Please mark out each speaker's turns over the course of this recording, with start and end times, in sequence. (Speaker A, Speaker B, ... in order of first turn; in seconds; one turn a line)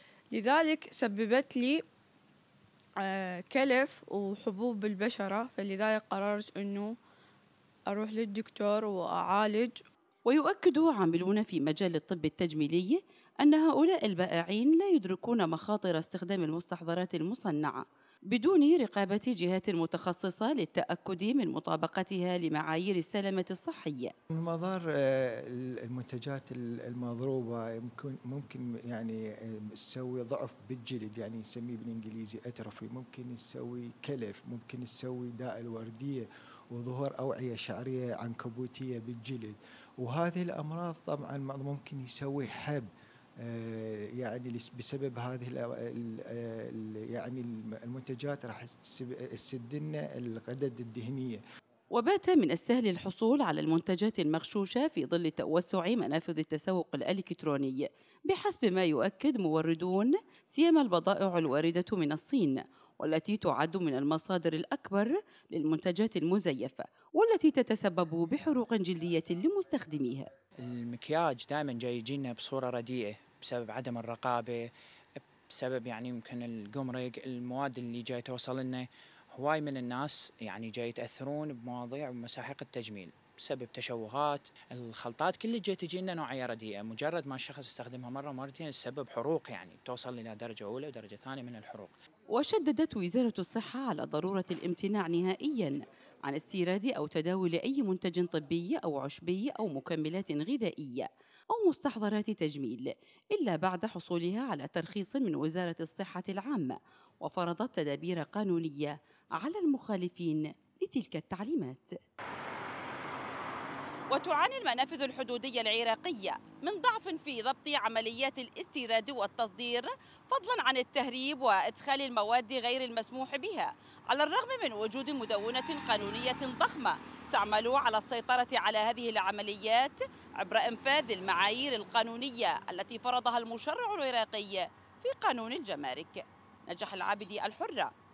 Speaker A: 0.3-1.8
Speaker A: 3.0-6.9
Speaker A: 7.9-9.8
Speaker B: 10.3-24.1
Speaker C: 24.4-42.9
Speaker C: 43.4-51.4
Speaker B: 51.9-70.3
Speaker D: 70.6-92.0
Speaker B: 92.3-112.0
Speaker B: 114.1-137.9